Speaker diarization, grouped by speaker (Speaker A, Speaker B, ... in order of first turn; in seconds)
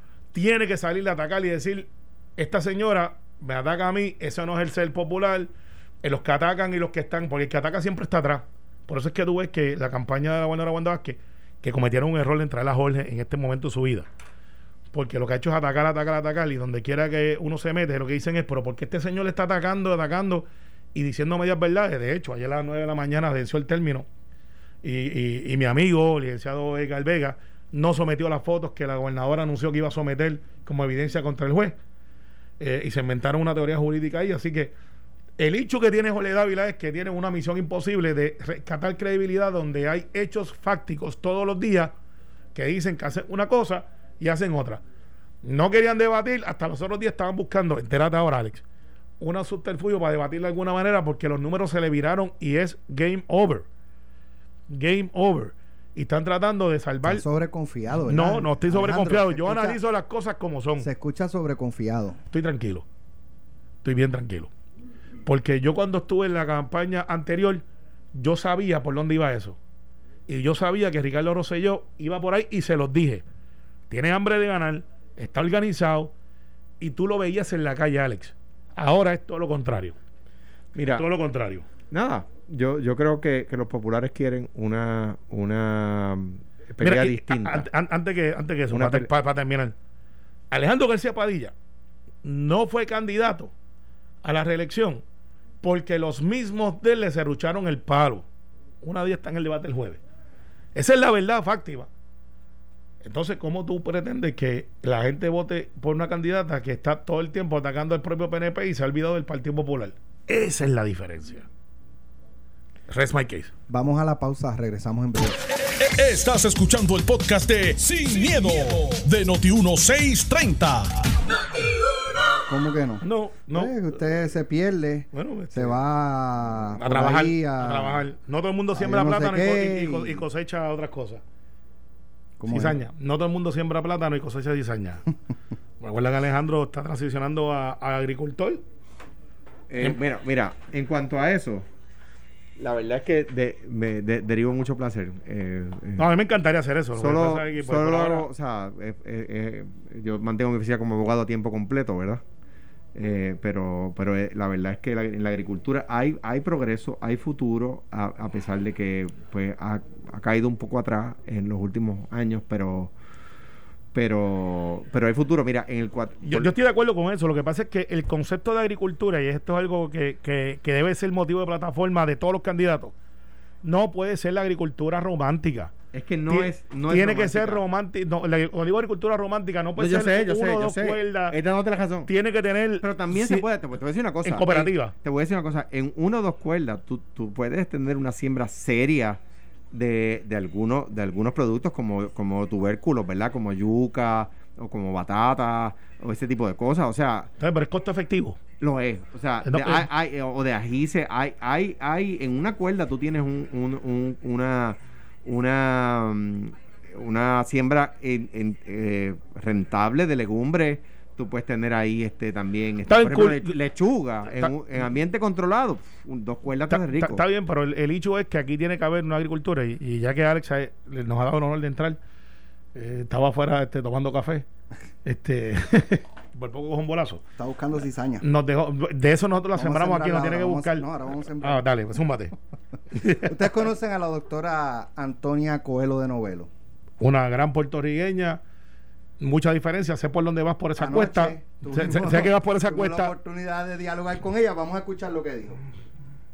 Speaker A: 0.3-5.5, 6.0-14.1, 14.9-24.1, 24.8-31.8, 32.6-34.7, 35.4-41.9, 42.5-44.8, 45.4-48.6, 49.2-53.7, 54.7-57.2, 58.1-60.9, 62.3-62.9, 63.8-64.5, 65.3-67.6, 68.2-69.6, 70.3-73.2, 73.9-76.1, 76.8-80.0, 80.9-81.7, 86.8-89.8, 90.5-91.5, 92.2-93.5, 94.2-95.0, 95.6-98.2, 98.8-100.0, 100.8-101.9, 103.0-111.5, 112.9-113.5, 123.0-123.7, 125.1-125.8, 126.8-131.2, 132.5-135.0, 135.8-138.6, 146.0-148.3, 166.2-172.9, 173.6-175.7, 176.3-181.4, 182.1-183.4, 184.2-184.9, 197.4-198.4, 199.4-199.9, 212.9-213.6, 216.7-222.0, 222.8-224.5, 225.1-227.2, 228.2-230.9, 231.4-232.3, 232.9-233.3, 237.0-238.4, 239.2-243.1
Speaker B: 57.0-59.8, 60.8-62.2, 113.7-115.4, 122.5-128.0, 128.7-130.2, 132.4-132.8, 227.4-228.2, 229.5-231.6, 233.2-236.5, 240.8-245.6
Speaker C: 80.8-81.1, 81.9-87.7, 88.7-89.1, 139.7-141.7, 142.6-146.1, 146.9-152.2, 152.9-162.9, 163.9-166.5, 175.9-177.6, 179.8-182.1, 182.8-189.2, 189.7-197.3, 198.6-217.2
Speaker D: 115.8-120.9